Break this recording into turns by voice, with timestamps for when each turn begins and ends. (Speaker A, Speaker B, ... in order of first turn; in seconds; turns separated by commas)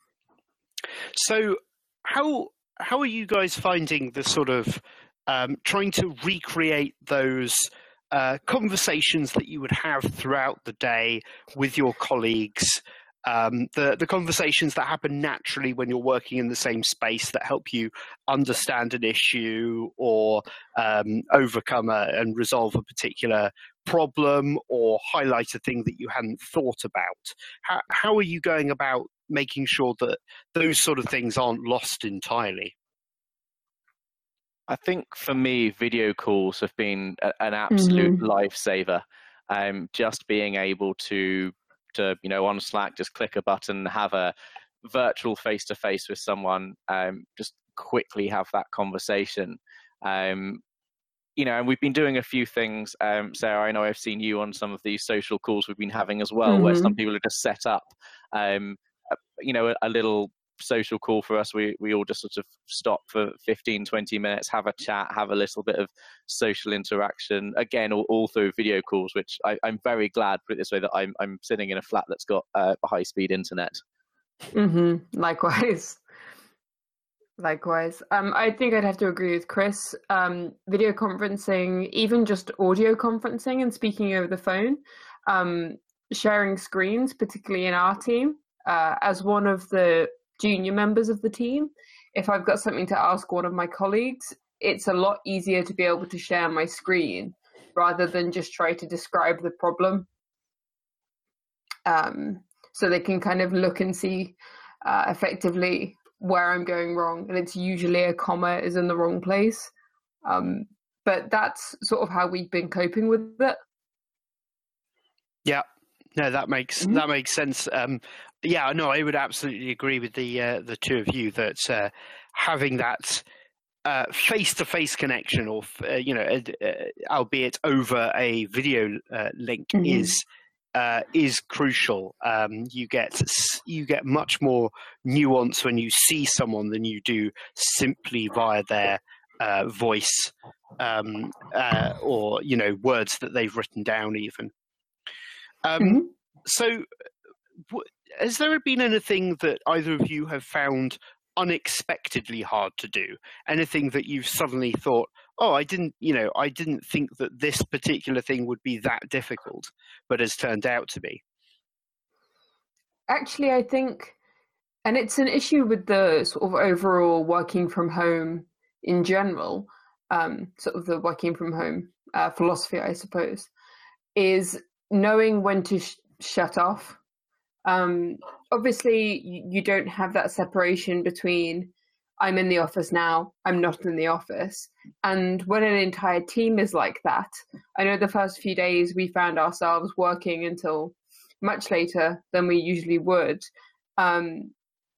Speaker A: 1.1-32.7, Speaker B: 34.7-44.3, Speaker C: 37.7-38.2, Speaker B: 44.9-50.6, Speaker B: 51.4-58.8, Speaker C: 56.5-56.9, Speaker B: 59.4-73.8, Speaker C: 74.5-76.0, Speaker C: 77.4-100.1, Speaker C: 101.9-109.7, Speaker C: 110.2-113.6, Speaker A: 116.2-123.2, Speaker A: 123.8-144.5, Speaker C: 129.7-130.1, Speaker A: 145.6-146.9, Speaker A: 147.7-161.2, Speaker C: 163.1-164.1, Speaker C: 164.8-173.5, Speaker C: 174.1-177.0, Speaker C: 177.6-193.4, Speaker C: 194.0-194.5